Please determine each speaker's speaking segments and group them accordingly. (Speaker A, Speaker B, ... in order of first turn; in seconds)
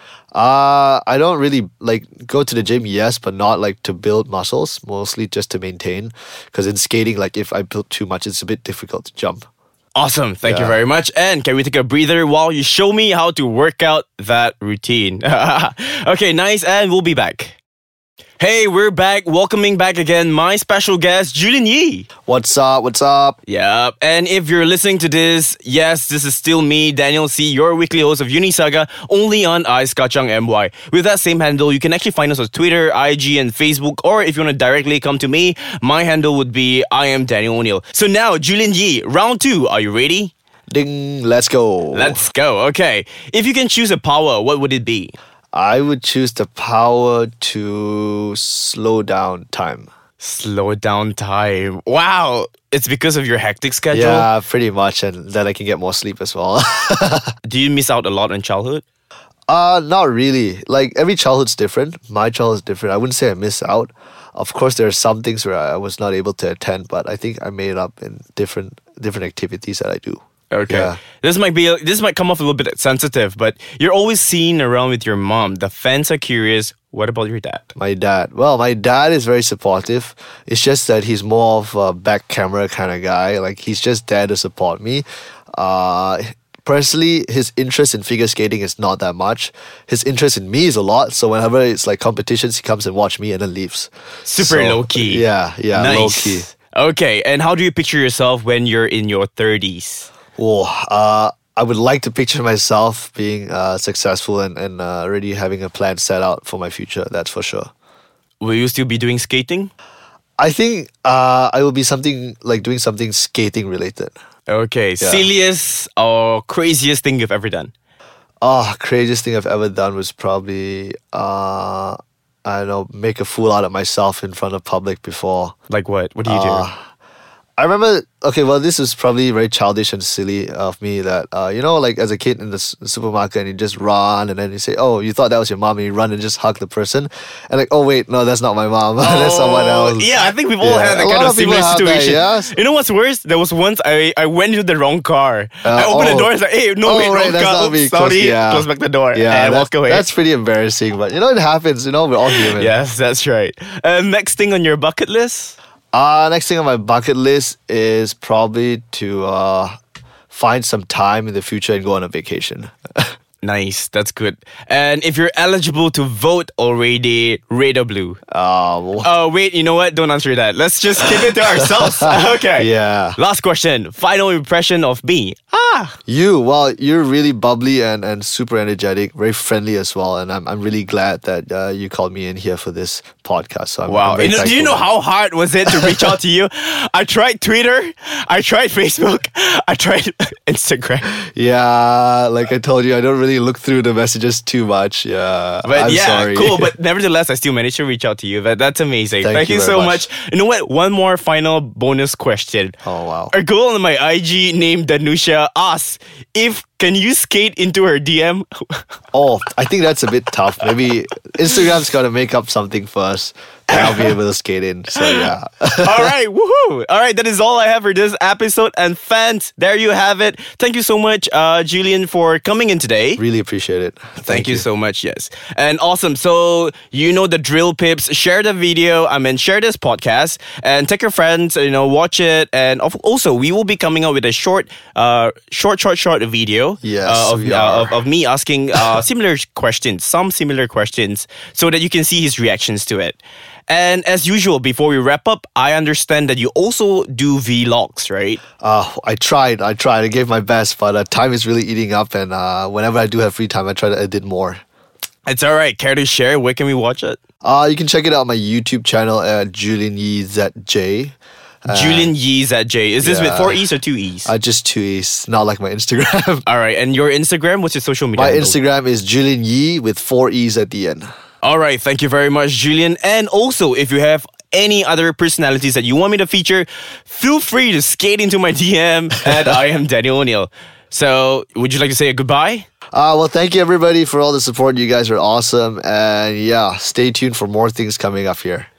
Speaker A: 0.3-9.4, 10.4-10.8, 22.3-23.4, 40.7-42.2, 45.5-49.9, 53.9-57.3, 59.5-71.0, 77.7-96.5, 100.4-107.7, 110.4-114.1, 115.0-115.3, 118.4-125.5, 126.2-126.8, 127.6-140.1, 140.6-142.5, 145.6-146.3, 146.8-152.7, 155.9-159.7, 160.3-163.1, 168.3-169.1, 171.0-173.2, 176.1-184.9, 185.7-186.2, 191.2-196.7, 199.2-200.0, 202.8-203.3, 209.1-216.1, 223.2-224.6, 236.8-237.9, 248.6-254.6, 257.4-262.1, 263.0-263.6, 264.2-266.4, 268.1-271.1, 282.9-288.7
Speaker B: 9.9-17.6, 18.4-22.1, 23.4-40.3, 41.9-45.1, 50.2-54.3, 57.4-58.8, 70.5-77.7, 94.2-100.1, 108.4-109.7, 114.5-117.7, 125.7-126.7, 139.0-150.1, 152.3-155.5, 163.4-168.2, 169.0-176.0, 183.9-191.1, 195.6-202.8, 203.3-208.8, 213.7-214.1, 214.9-223.2, 224.3-248.4, 255.2-257.2, 261.7-264.3, 266.4-268.6, 271.4-282.6